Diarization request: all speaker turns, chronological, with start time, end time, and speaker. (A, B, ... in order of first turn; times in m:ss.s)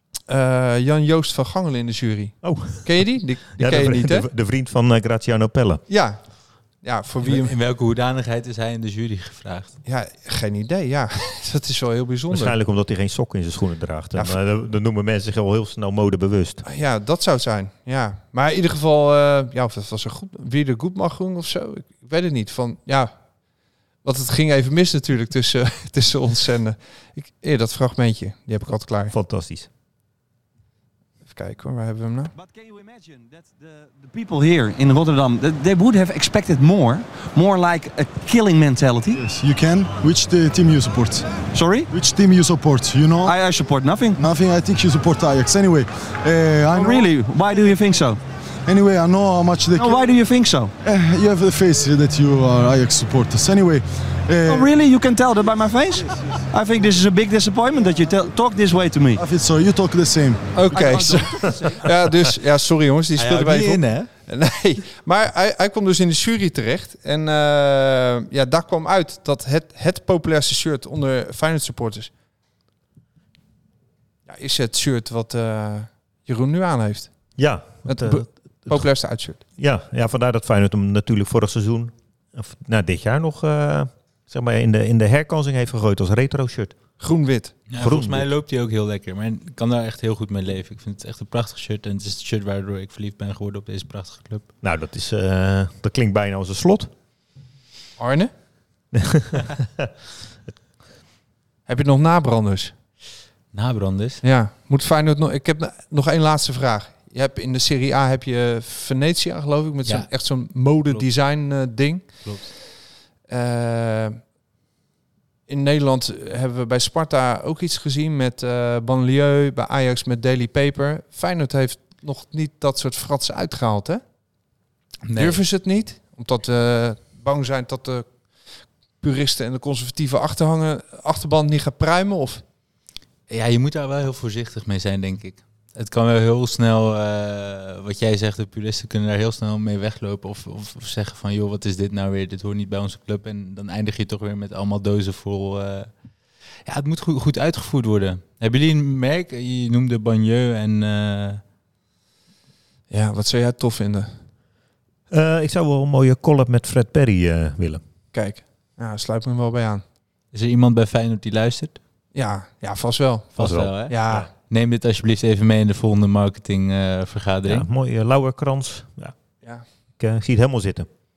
0:00.3-0:04.3 A
0:02.4-0:05.8 B
0:05.9-0:06.2 A
0:06.8-0:07.5 A
0:07.2-0:09.8 C
0:09.9-0:12.6 A
0:12.3-0:16.6 B
0:16.6-0:23.1 A
0:24.0-0:29.1 A
0:29.1-0:29.7 B
0:31.3-0:32.3 A
0:32.3-0:39.2 D
0:39.1-0:43.4 E
0:41.5-0:41.9 D
0:43.3-0:44.2 D
0:44.2-0:47.1 E
0:46.8-0:48.2 D
0:48.7-0:50.1 E
0:49.8-0:50.7 D
0:50.8-0:54.7 E
0:54.5-0:59.2 D
0:59.2-1:01.1 E
1:00.6-1:12.1 A
1:00.7-1:01.8 D
1:03.2-1:04.1 C
1:14.3-1:17.1 A
1:17.4-1:18.9 B
1:17.8-1:19.4 A
1:19.6-1:26.8 B
1:27.0-1:27.6 A
1:27.7-1:34.5 C
1:27.8-1:28.3 B
1:34.6-1:36.9 B
1:38.0-1:38.3 A
1:38.9-1:39.9 B
1:41.7-1:42.7 A
1:43.5-1:44.2 C
1:44.2-1:52.5 A
1:52.2-1:52.5 C
1:53.3-1:54.2 A
1:55.5-2:04.0 A
2:05.1-2:05.4 C
2:05.2-2:08.1 A
2:09.0-2:12.4 A
2:13.3-2:25.9 C
2:26.6-2:31.4 C
2:32.9-2:34.1 A
2:35.1-2:37.8 B
2:38.1-2:39.8 A
2:40.3-2:41.8 C
2:42.2-2:44.3 A
2:43.4-2:47.7 C
2:43.4-2:44.3 B
2:47.5-2:49.2 B
2:50.0-2:50.9 B